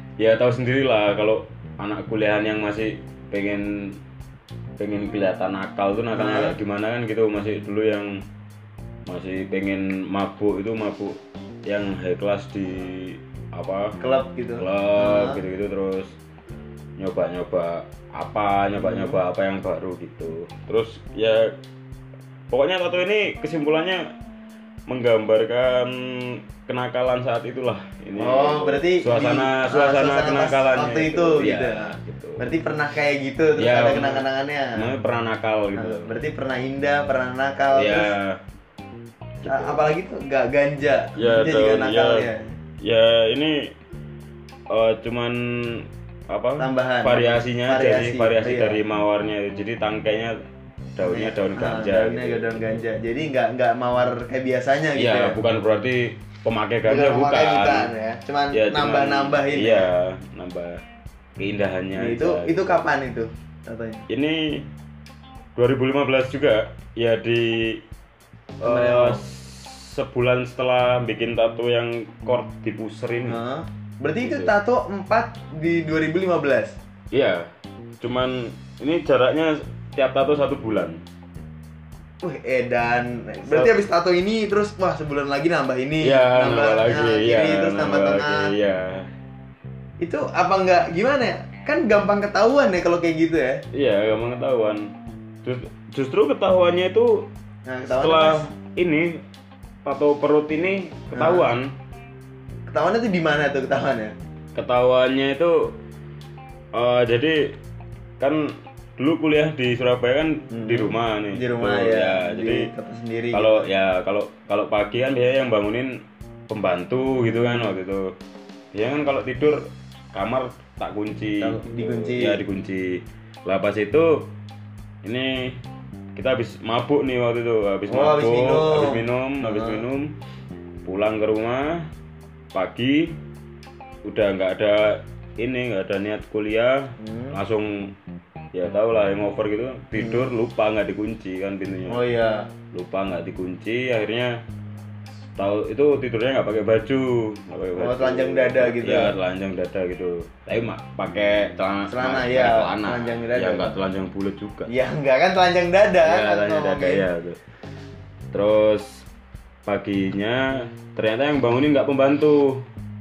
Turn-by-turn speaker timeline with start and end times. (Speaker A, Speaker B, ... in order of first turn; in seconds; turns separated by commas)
Speaker A: 0.2-4.0, Speaker A: 4.8-8.2, Speaker B: 6.1-6.5, Speaker A: 9.1-14.0, Speaker B: 14.0-15.4, Speaker A: 14.5-16.2, Speaker A: 17.0-21.6, Speaker B: 18.8-19.2, Speaker A: 22.5-24.1, Speaker A: 24.9-32.5, Speaker B: 28.2-34.9, Speaker A: 33.6-36.2, Speaker B: 35.8-38.1, Speaker A: 37.8-38.4, Speaker A: 39.4-39.9, Speaker B: 39.5-42.5, Speaker A: 41.2-42.3, Speaker A: 42.8-43.7, Speaker A: 44.7-50.4, Speaker B: 46.6-48.8, Speaker A: 51.0-52.8, Speaker B: 51.0-55.4, Speaker A: 55.0-57.9, Speaker B: 56.9-59.9, Speaker A: 58.5-60.8, Speaker A: 61.4-62.8, Speaker B: 62.0-64.0, Speaker A: 64.1-64.7, Speaker A: 65.6-67.8, Speaker A: 68.6-73.4, Speaker B: 68.6-69.2, Speaker B: 73.3-76.8, Speaker A: 74.2-74.5, Speaker A: 77.1-77.5, Speaker A: 78.0-81.0, Speaker B: 82.2-88.5, Speaker A: 83.5-83.8, Speaker A: 86.0-89.1, Speaker B: 90.0-93.6, Speaker A: 93.7-94.9, Speaker A: 95.4-97.3, Speaker B: 97.7-98.5, Speaker A: 97.9-99.2, Speaker A: 99.8-101.7, Speaker B: 101.2-101.5, Speaker B: 102.7-104.2, Speaker A: 104.6-105.7, Speaker A: 106.7-107.5, Speaker A: 108.2-112.7, Speaker B: 110.5-113.7, Speaker A: 113.3-118.1, Speaker B: 117.5-117.7, Speaker A: 118.7-124.3, Speaker B: 121.4-122.4, Speaker A: 125.0-125.6, Speaker A: 126.2-130.1, Speaker B: 127.9-129.8, Speaker A: 130.8-131.9, Speaker A: 132.5-133.2, Speaker A: 134.1-137.9, Speaker B: 137.0-137.3, Speaker A: 138.5-142.0, Speaker B: 140.0-140.3, Speaker B: 141.9-142.5, Speaker A: 142.7-144.3, Speaker A: 145.4-154.7, Speaker B: 147.8-149.1, Speaker B: 151.9-153.7, Speaker B: 154.7-157.0, Speaker A: 156.0-157.4, Speaker A: 158.3-159.1, Speaker A: 159.7-162.6